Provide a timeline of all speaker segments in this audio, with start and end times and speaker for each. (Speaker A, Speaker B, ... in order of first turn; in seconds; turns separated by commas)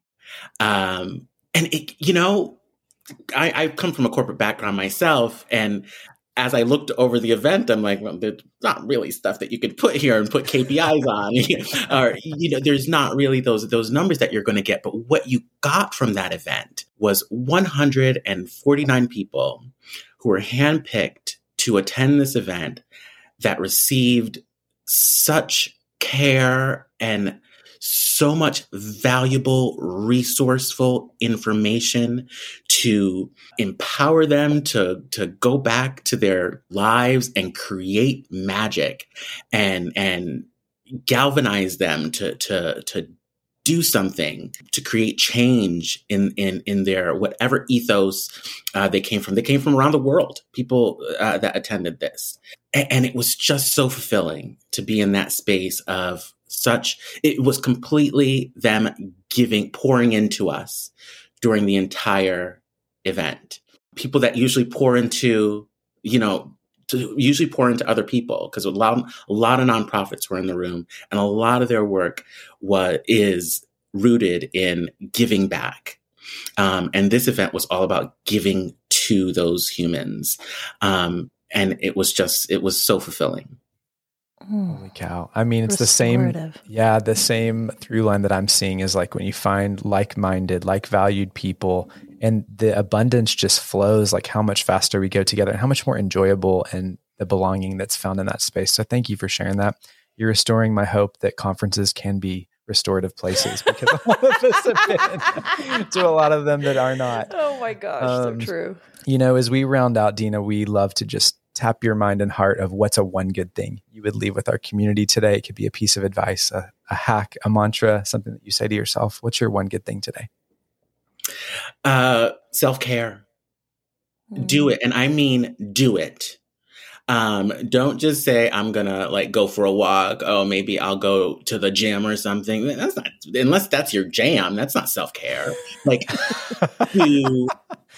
Speaker A: 0.6-2.6, Speaker A: 3.3-19.7, Speaker A: 20.2-22.8, Speaker A: 23.4-40.5, Speaker A: 41.0-43.1, Speaker A: 43.6-76.0, Speaker A: 76.6-83.6, Speaker B: 84.5-84.8, Speaker C: 84.7-107.3, Speaker B: 85.7-86.6, Speaker B: 107.2-108.8, Speaker C: 108.0-108.5, Speaker C: 109.0-120.3, Speaker A: 121.8-123.2, Speaker B: 124.3-124.7, Speaker A: 124.3-126.4, Speaker A: 127.1-137.6